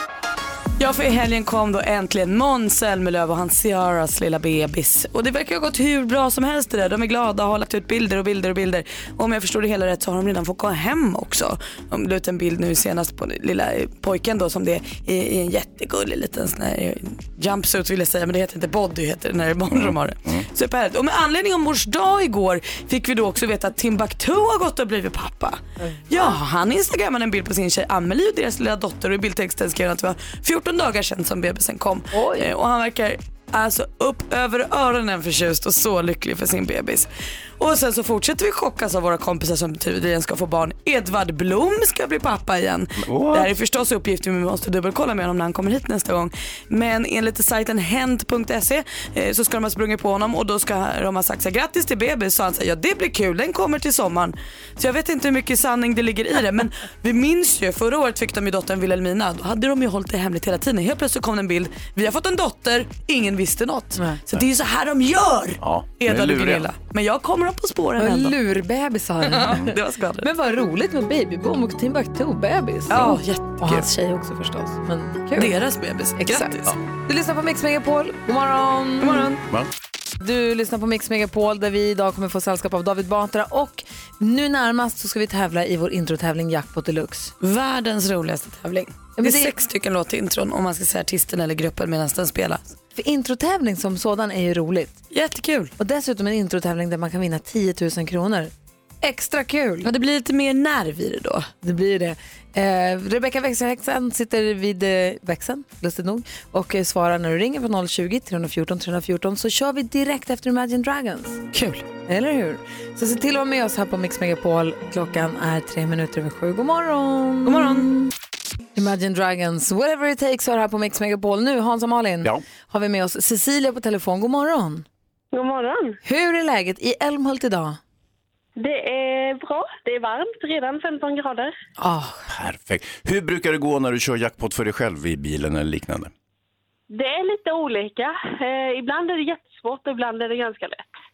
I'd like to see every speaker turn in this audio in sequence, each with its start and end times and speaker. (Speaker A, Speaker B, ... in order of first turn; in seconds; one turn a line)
Speaker A: 0.8-37.1
Speaker B: 19.7-20.4
Speaker C: 25.9-26.4
Speaker C: 32.1-32.5
Speaker A: 37.6-68.3
Speaker B: 43.0-43.5
Speaker B: 65.6-66.7
Speaker C: 68.0-75.5
Speaker A: 69.3-70.3
Speaker B: 72.9-73.8
Speaker A: 72.9-73.6
Speaker A: 75.3-76.7
Speaker C: 76.2-76.5
Speaker C: 77.0-79.3
Speaker A: 79.0-79.4
Speaker C: 80.2-87.3
Speaker A: 87.4-92.6
Speaker C: 89.2-89.5
Speaker C: 92.9-95.0
Speaker A: 95.1-95.7
Speaker C: 95.8-99.9
Speaker A: 99.8-101.5
Speaker C: 101.6-111.4
Speaker A: 111.5-111.8
Speaker C: 112.1-118.1
Speaker A: 117.5-117.9
Speaker C: 118.7-124.8
Speaker D: 125.3-126.0
Speaker C: 126.0-127.8
Speaker D: 128.6-131.5
Speaker C: 131.8-132.2
Speaker B: 132.3-136.1
Speaker D: 136.9-140.9